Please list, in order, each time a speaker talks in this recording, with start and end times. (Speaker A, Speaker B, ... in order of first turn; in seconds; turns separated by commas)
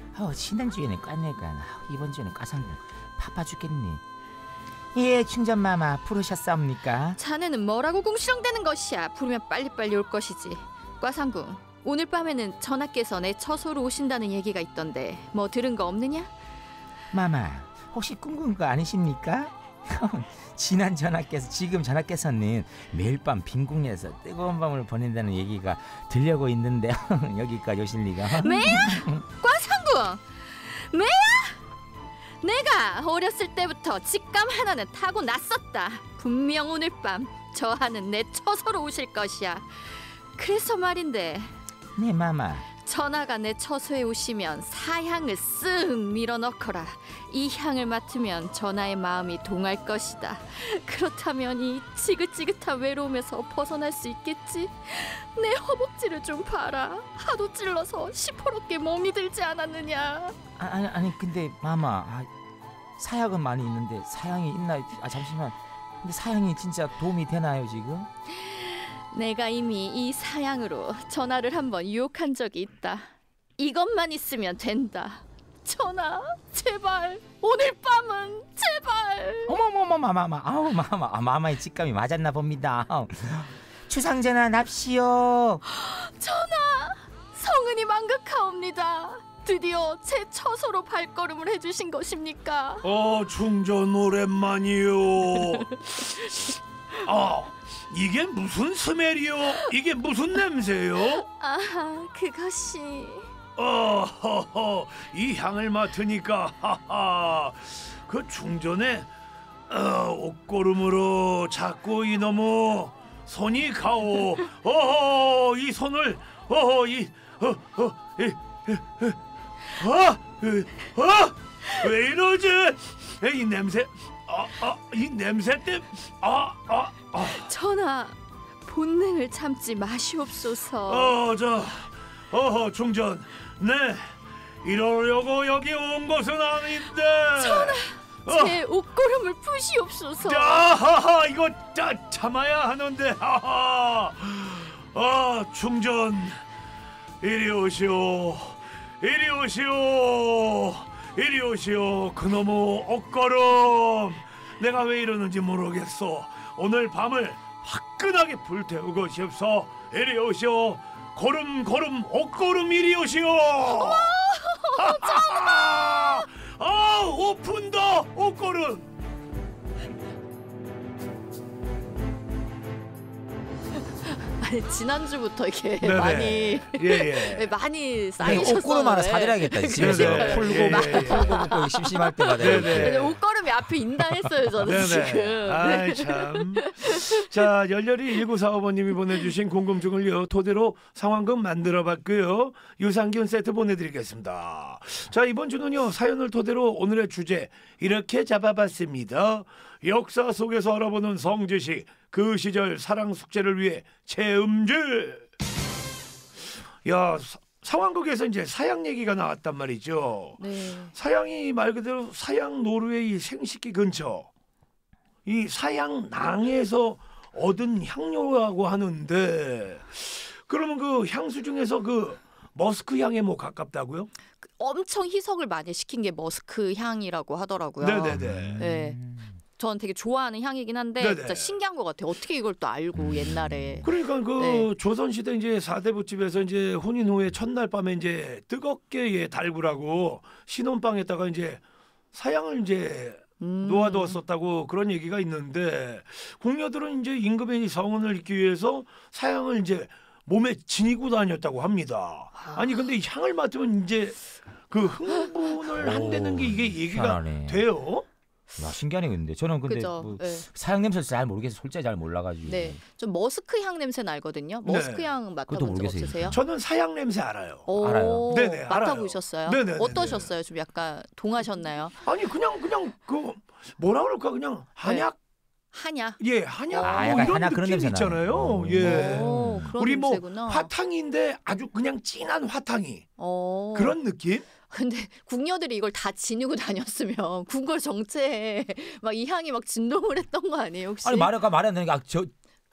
Speaker A: 0.1-4.0, Speaker A: 4.9-7.2, Speaker B: 7.2-16.3, Speaker A: 17.1-29.2, Speaker B: 28.3-31.6, Speaker B: 32.4-41.5, Speaker A: 42.0-42.6, Speaker B: 42.8-60.4, Speaker A: 60.6-62.3, Speaker A: 63.0-68.1, Speaker B: 68.3-79.5, Speaker A: 79.5-85.6, Speaker B: 85.7-92.9, Speaker C: 92.8-95.8, Speaker B: 95.4-96.4, Speaker C: 97.0-101.2, Speaker B: 101.1-103.3, Speaker C: 103.6-109.1, Speaker C: 109.7-119.2, Speaker C: 119.7-127.5, Speaker B: 127.2-131.1, Speaker C: 130.9-138.6, Speaker B: 137.4-140.7, Speaker C: 140.2-146.4, Speaker C: 147.2-164.1, Speaker B: 163.7-166.2, Speaker C: 164.8-168.9, Speaker B: 174.1-187.3, Speaker C: 175.8-177.5, Speaker A: 178.2-184.3, Speaker C: 178.2-178.5, Speaker C: 179.8-181.5, Speaker C: 182.4-183.2, Speaker C: 184.6-205.3, Speaker C: 206.8-214.3, Speaker B: 210.4-210.9, Speaker C: 215.2-224.1, Speaker B: 224.4-229.0, Speaker C: 227.8-228.6, Speaker A: 228.1-229.4, Speaker B: 229.6-234.7, Speaker C: 231.0-231.6, Speaker A: 232.9-233.9, Speaker C: 233.8-241.6, Speaker C: 242.1-258.1, Speaker B: 243.4-244.2, Speaker A: 255.8-257.7, Speaker A: 258.6-262.8, Speaker B: 259.7-260.5, Speaker B: 262.4-266.4, Speaker C: 264.6-265.1, Speaker A: 265.5-266.4, Speaker C: 266.3-267.7, Speaker B: 267.7-272.0, Speaker A: 267.8-268.3, Speaker C: 268.3-270.3, Speaker C: 272.0-275.1, Speaker B: 275.7-276.2, Speaker C: 276.2-283.1, Speaker B: 276.7-277.3, Speaker A: 276.8-279.7, Speaker B: 278.8-280.7, Speaker B: 283.2-283.9, Speaker C: 283.7-284.4, Speaker B: 284.7-291.3, Speaker A: 291.0-292.3